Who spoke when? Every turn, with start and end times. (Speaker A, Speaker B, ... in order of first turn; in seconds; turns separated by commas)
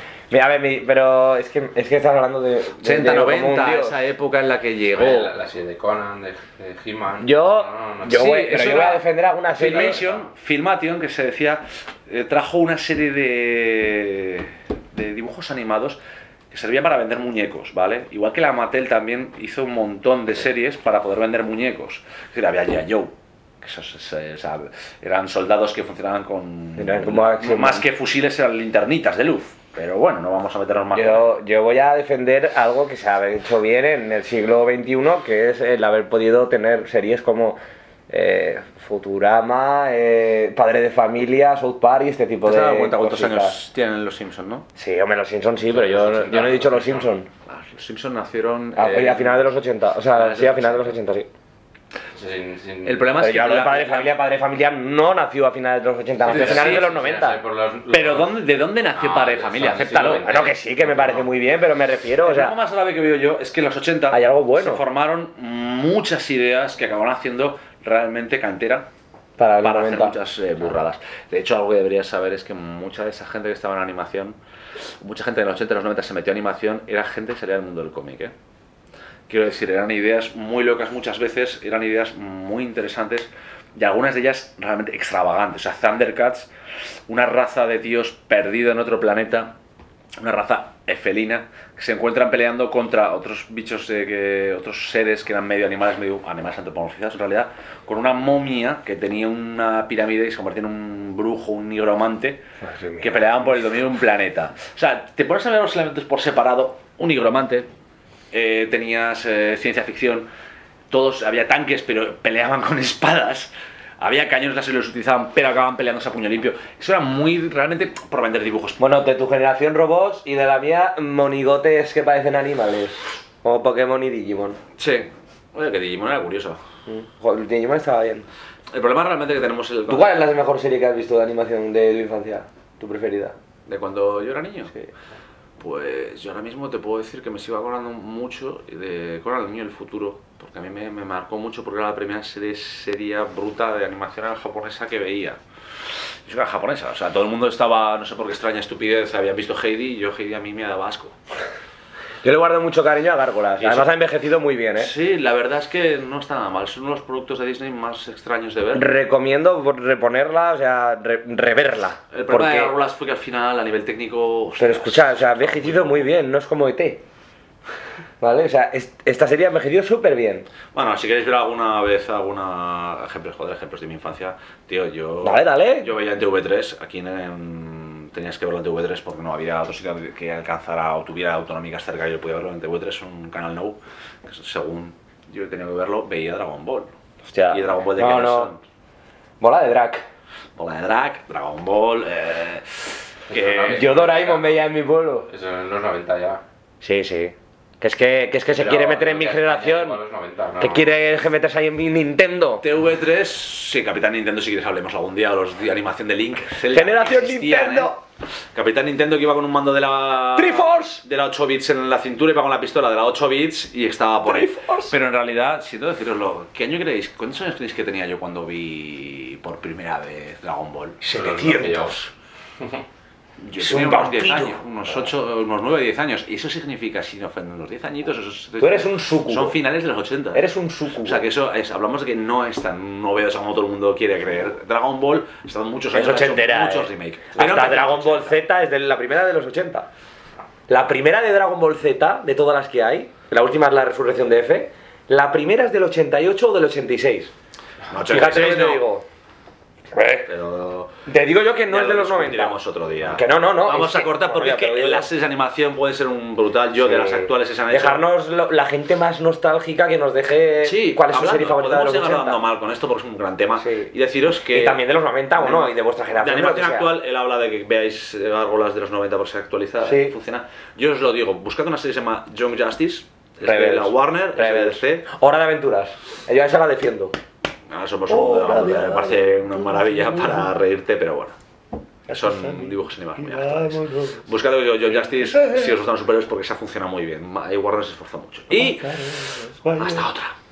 Speaker A: 0.3-4.0, Speaker B: 2.8-5.3, Speaker C: 4.9-8.8, Speaker A: 7.2-10.0, Speaker B: 8.1-31.3, Speaker C: 9.5-10.3, Speaker A: 26.8-27.9, Speaker A: 30.9-37.6, Speaker A: 38.1-43.5, Speaker B: 42.4-44.7, Speaker A: 44.8-47.3, Speaker C: 45.7-47.1, Speaker B: 47.5-49.5, Speaker A: 48.8-51.3, Speaker B: 50.1-51.0, Speaker C: 52.1-53.1, Speaker B: 52.8-54.1, Speaker A: 53.2-57.4, Speaker C: 56.2-58.3, Speaker B: 56.3-56.9, Speaker B: 57.9-60.3, Speaker C: 58.9-61.3, Speaker A: 60.2-62.6, Speaker B: 62.2-68.9, Speaker A: 64.1-64.8, Speaker A: 69.4-70.2, Speaker B: 69.6-74.3, Speaker B: 75.0-78.3, Speaker B: 79.3-86.5, Speaker B: 87.1-89.5, Speaker B: 90.2-102.4, Speaker A: 102.6-103.3, Speaker B: 103.0-107.7, Speaker B: 108.3-110.3, Speaker B: 110.9-118.8, Speaker A: 118.8-124.6, Speaker B: 124.8-126.6, Speaker A: 126.9-128.2, Speaker B: 128.7-130.2, Speaker A: 129.9-133.3, Speaker B: 133.7-134.7, Speaker B: 135.6-145.4, Speaker B: 146.3-151.2, Speaker A: 152.2-154.9, Speaker B: 153.6-153.9, Speaker B: 154.8-158.9, Speaker A: 158.7-162.7, Speaker B: 162.1-166.1, Speaker A: 164.6-167.0, Speaker A: 168.2-170.5, Speaker B: 170.7-186.9, Speaker A: 175.2-175.9, Speaker A: 187.3-188.5, Speaker B: 187.5-188.6, Speaker A: 189.4-190.0, Speaker B: 190.6-194.0, Speaker C: 193.3-194.7, Speaker A: 193.7-195.3, Speaker C: 195.3-196.4, Speaker A: 196.8-200.0, Speaker C: 198.5-200.9, Speaker A: 200.6-202.7, Speaker B: 202.6-207.9, Speaker A: 206.7-208.0, Speaker B: 208.5-221.0, Speaker A: 210.3-211.0, Speaker A: 214.2-214.9, Speaker A: 221.0-222.1, Speaker C: 221.1-222.1, Speaker B: 223.4-230.4, Speaker A: 223.6-224.6, Speaker A: 228.6-229.6, Speaker A: 230.3-231.2, Speaker B: 231.0-238.4, Speaker A: 235.9-239.9, Speaker A: 240.7-247.3, Speaker B: 247.9-248.8, Speaker A: 248.0-249.0, Speaker A: 249.9-250.3, Speaker B: 250.3-250.9, Speaker A: 251.1-255.1, Speaker B: 251.7-258.0, Speaker A: 256.8-262.4, Speaker B: 260.6-264.8, Speaker A: 263.6-263.9, Speaker A: 264.4-266.9, Speaker B: 265.4-275.1, Speaker A: 269.8-270.1, Speaker A: 273.4-277.1, Speaker B: 277.7-281.4, Speaker A: 278.1-279.2, Speaker A: 279.7-280.4, Speaker A: 282.1-284.2, Speaker B: 282.1-289.2, Speaker A: 285.1-285.7, Speaker A: 288.5-290.1, Speaker B: 289.8-290.4